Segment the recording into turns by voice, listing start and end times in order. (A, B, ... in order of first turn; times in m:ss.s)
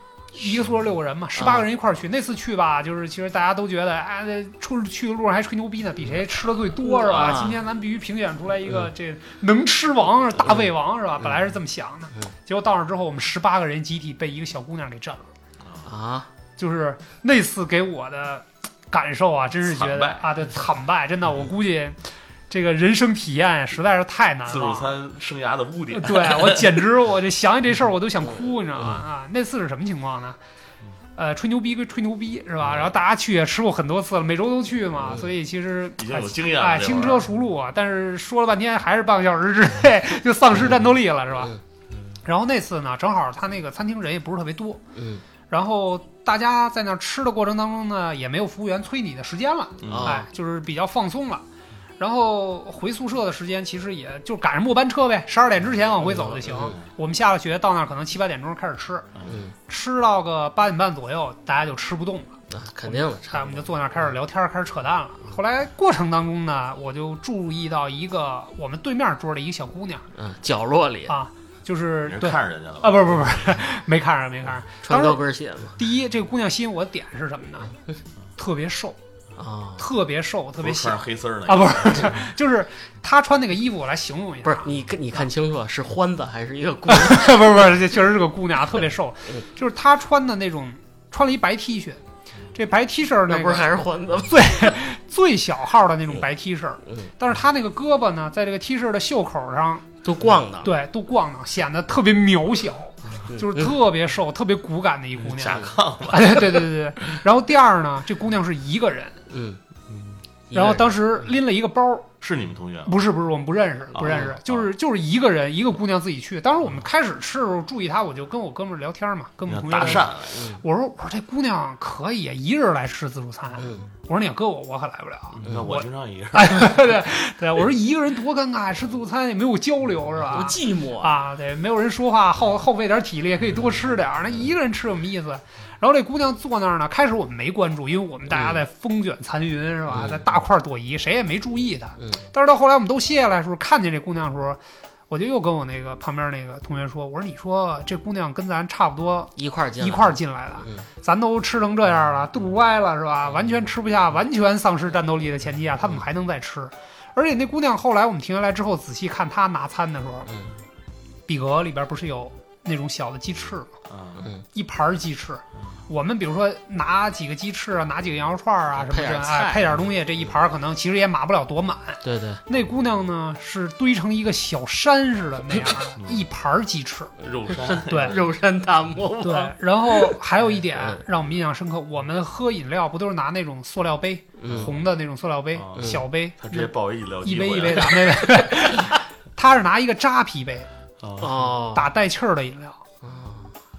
0:00.4-0:15.3 A
0:01.4-0:01.7 B
0:06.8-0:07.6 B
0:10.4-0:11.5 B
0:15.8-0:16.3 B
0:16.6-0:24.9 A
0:19.6-0:20.3 C
0:24.5-0:26.8 C
0:25.9-0:30.4 A
0:28.8-0:29.0 B
0:31.2-0:41.5 A
0:35.0-0:35.3 B
0:36.0-0:37.3 C
0:42.2-0:44.8 A
0:45.0-0:45.2 B
0:45.5-0:51.4 A
0:49.8-0:50.2 C
0:49.9-0:50.3 B
0:52.0-0:59.1 A
0:56.0-0:56.8 B
0:59.3-0:59.5 B
0:59.7-1:10.1 A
1:02.5-1:03.7 B
1:10.1-1:11.2 B
1:11.1-1:15.2 A
1:12.0-1:13.6 C
1:14.8-1:15.8 B
1:15.8-1:17.7 A
1:18.4-1:19.0 A
1:19.4-1:19.9 B
1:19.8-1:24.7 A
1:20.6-1:22.2 C
1:24.4-1:27.6 B
1:26.9-1:32.0 A
1:32.5-1:33.7 A
1:33.3-1:34.7 B
1:34.3-1:39.9 A
1:36.9-1:37.1 B
1:40.0-1:40.7 B
1:40.6-1:49.2 A
1:43.3-1:43.7 B
1:45.2-1:46.6 C
1:49.3-1:49.6 B
1:49.9-1:50.2 C
1:50.5-1:51.0 B
1:50.5-1:52.1 A
1:52.2-1:53.1 C
1:52.9-2:40.3 A
1:53.9-1:54.7 C
1:54.0-1:54.4 B
1:59.5-2:00.4 C
2:00.3-2:00.6 B
2:03.6-2:03.9 B
2:05.3-2:06.8 C
2:10.3-2:11.2 B
2:18.3-2:18.6 B
2:19.9-2:20.3 B
2:22.0-2:22.2 B
2:29.4-2:30.9 B
2:40.3-2:40.5 B
2:41.3-2:43.7 A
2:43.9-2:44.2 C
2:44.5-2:57.1 A
2:48.8-2:49.8 B
2:52.0-2:52.4 B
2:56.0-2:56.3 C
2:57.2-2:58.2 C
2:57.5-3:01.0 B
2:57.9-2:58.2 A
2:59.2-3:06.7 A
3:04.4-3:04.7 B
3:04.5-3:04.8 C
3:05.5-3:08.2 C
3:05.8-3:06.0 B
3:07.2-3:10.7 A
3:11.0-3:11.5 C
3:11.2-3:11.9 B
3:11.7-3:12.8 A
3:13.0-3:13.5 B